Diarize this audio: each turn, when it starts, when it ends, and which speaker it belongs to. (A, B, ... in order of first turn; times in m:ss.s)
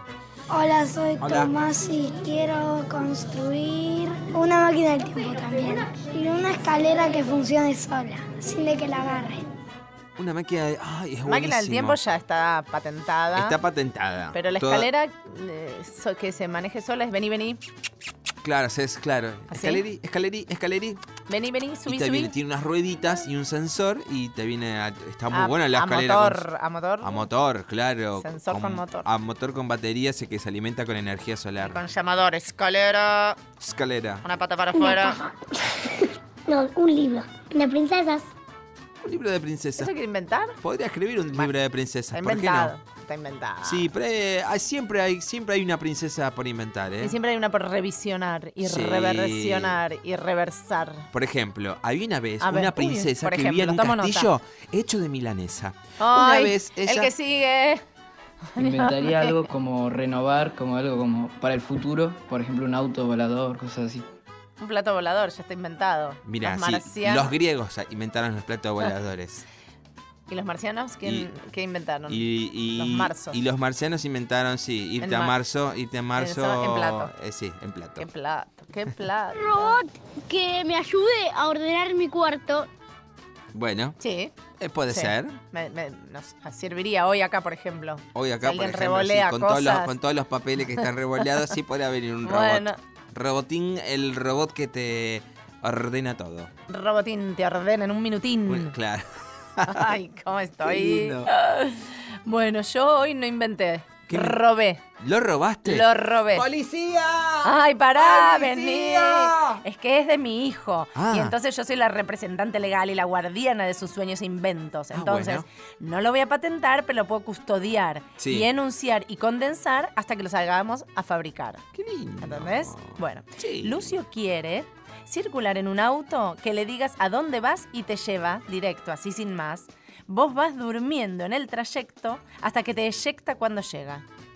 0:00.5-0:09.4 A
0:01.2-0:01.5 B
0:10.2-0:12.0 B
0:11.2-0:13.6 C
0:13.3-0:14.9 B
0:14.3-0:17.6 C
0:18.4-0:21.0 B
0:19.5-0:19.8 C
0:21.3-0:22.3 C
0:21.9-0:26.4 B
0:25.3-0:27.2 C
0:27.0-0:31.8 B
0:28.2-0:29.1 C
0:31.6-0:33.4 C
0:33.6-0:34.2 B
0:34.2-0:35.2 C
0:34.8-0:35.3 A
0:36.5-0:38.2 A
0:39.0-0:39.9 B
0:39.8-0:40.6 C
0:40.6-0:42.7 B
0:42.1-0:43.9 C
0:43.6-0:47.2 B
0:47.0-0:51.1 C
0:48.6-0:49.8 B
0:51.1-0:57.1 B
0:52.4-0:54.3 C
0:56.0-0:57.8 C
0:58.5-0:59.4 C
0:58.6-1:04.0 D
1:04.6-1:07.3 C
1:06.2-1:09.4 B
1:10.3-1:13.4 C
1:11.0-1:11.3 B
1:12.1-1:18.0 B
1:15.0-1:15.3 C
1:16.2-1:17.1 C
1:18.0-1:19.8 C
1:20.3-1:22.6 E
1:23.5-1:24.0 B
1:24.0-1:24.3 C
1:24.6-1:25.4 B
1:24.9-1:29.9 C
1:28.1-1:36.5 B
1:32.2-1:32.8 C
1:36.7-1:38.7 C
1:38.4-1:39.9 B
1:39.7-1:44.8 C
1:40.6-1:41.3 B
1:44.1-1:44.4 B
1:45.0-1:49.3 B
1:45.6-1:46.5 C
1:47.4-2:01.6 C
1:50.9-1:51.3 B
1:54.9-1:55.4 B
1:58.2-1:58.5 B
2:01.7-2:04.0 B
2:02.2-2:14.0 C